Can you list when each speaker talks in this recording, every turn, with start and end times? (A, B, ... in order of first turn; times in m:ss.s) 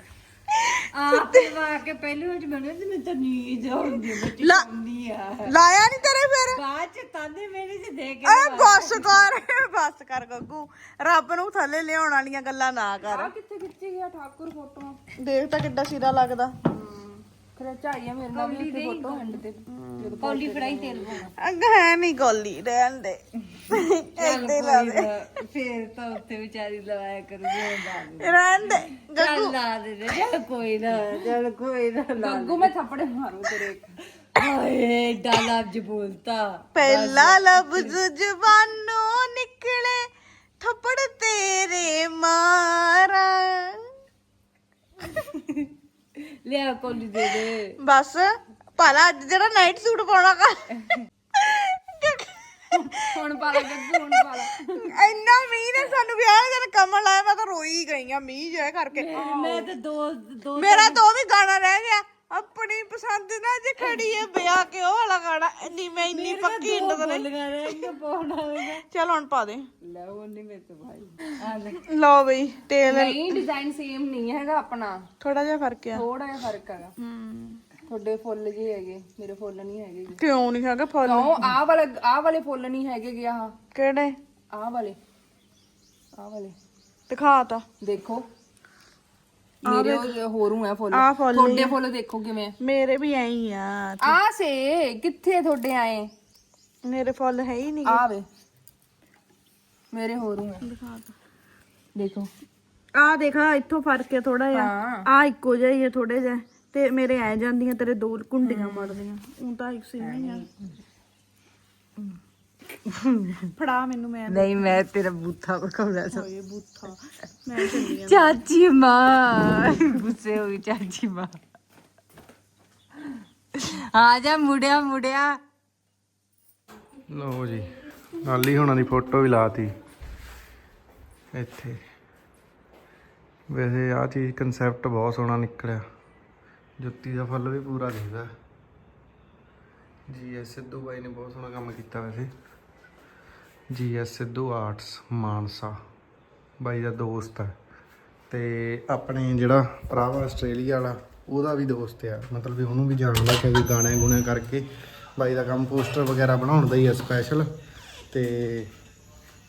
0:00.5-0:01.5 A
0:00.9-0:05.5 B
0:04.1-0:04.7 A
0:05.4-0:06.6 A
0:06.5-0:09.2 B
0:08.2-0:13.3 A
0:13.0-0:15.0 C
0:15.2-0:16.5 A
0:16.7-0:21.3 C
0:18.3-0:18.6 A
0:18.4-0:19.4 B
0:19.7-0:20.1 A
0:20.1-0:21.3 B
0:21.4-0:25.1 A
0:24.2-0:32.7 B
0:28.2-0:30.2 A
0:32.1-0:33.9 C
0:34.3-0:37.9 B
0:36.7-0:40.0 A
0:40.6-0:43.8 A
0:46.2-0:47.7 B
0:47.8-0:59.7 A
0:53.0-0:54.7 C
0:59.0-1:01.0 B
1:00.6-1:07.9 A
1:06.1-1:08.8 B
1:08.6-1:09.6 A
1:09.8-1:11.8 B
1:11.8-1:13.4 A
1:12.8-1:15.0 C
1:15.2-1:16.0 A
1:15.9-1:16.9 C
1:17.0-1:17.7 A
1:17.8-1:20.2 C
1:20.2-1:21.6 A
1:21.0-1:23.5 C
1:23.7-1:24.2 A
1:24.5-1:25.0 C
1:26.1-1:26.6 C
1:27.1-1:27.6 A
1:27.8-1:28.3 C
1:29.6-1:32.5 C
1:29.6-1:30.1 A
1:30.9-1:31.8 A
1:32.6-1:34.2 A
1:34.0-1:36.1 C
1:36.8-1:38.0 A
1:37.8-1:38.2 C
1:39.9-1:40.7 C
1:40.6-1:41.1 A
1:41.9-1:42.3 C
1:42.9-1:50.4 A
1:44.5-1:45.1 C
1:48.4-1:49.0 B
1:50.0-1:50.7 B
1:52.8-1:53.5 B
1:53.6-1:54.8 A
1:54.3-1:56.2 B
1:56.1-1:58.4 A
1:57.6-2:01.4 B
2:03.5-2:05.4 B
2:07.1-2:09.7 D
2:11.3-2:11.8 D
2:13.5-2:15.8 D
2:16.8-2:18.3 D
2:20.1-2:22.3 D
2:23.7-2:25.7 D
2:26.6-2:27.5 D
2:28.3-2:37.5 D
2:38.1-2:38.7 D